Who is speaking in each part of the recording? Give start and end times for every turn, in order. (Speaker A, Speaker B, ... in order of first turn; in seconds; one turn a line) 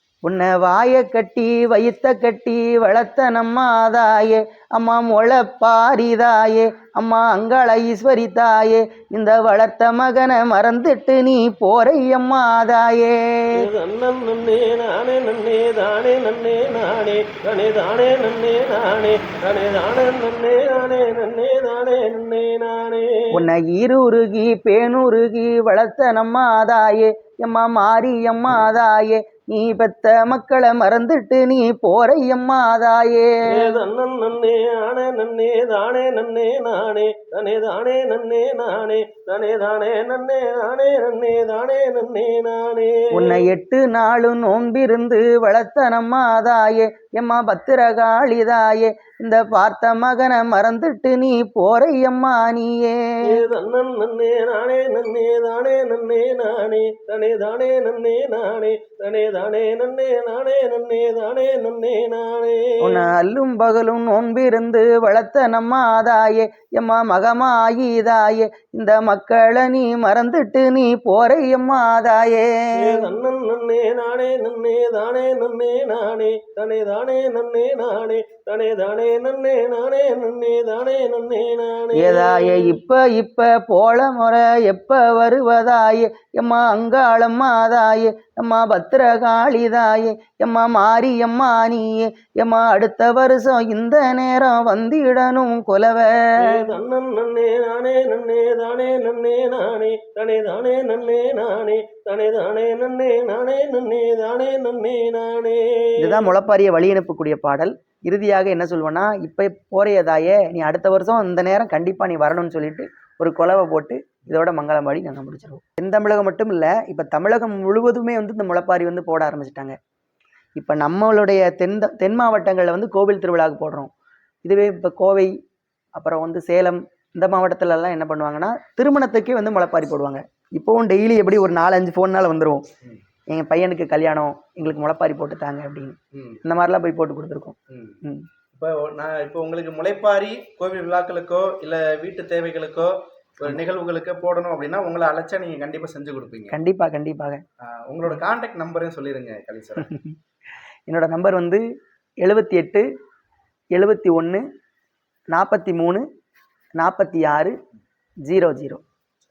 Speaker A: 0.2-13.6
Speaker B: 13.6-23.3
Speaker A: 23.3-33.7
Speaker B: 33.5-43.4
Speaker A: 43.1-53.4
Speaker B: 53.3-63.1
Speaker A: 62.8-73.1
Speaker B: 72.8-82.8
Speaker A: 82.0-96.6
Speaker B: 96.4-106.3
Speaker A: 106.0-119.8
Speaker A: 120.6-123.9
Speaker A: 124.5-125.3
Speaker A: 126.0-132.6
Speaker A: 133.3-138.3
Speaker C: 136.1-136.4
Speaker C: 137.7-138.0
Speaker C: 138.5-146.6
Speaker A: 146.5-147.4
Speaker C: 147.6-149.9
Speaker A: 149.8-150.2
Speaker A: 150.9-151.6
Speaker A: 152.2-152.9
Speaker A: 153.7-154.4
Speaker A: 155.3-156.0
Speaker A: 156.8-157.6
Speaker A: 158.3-158.8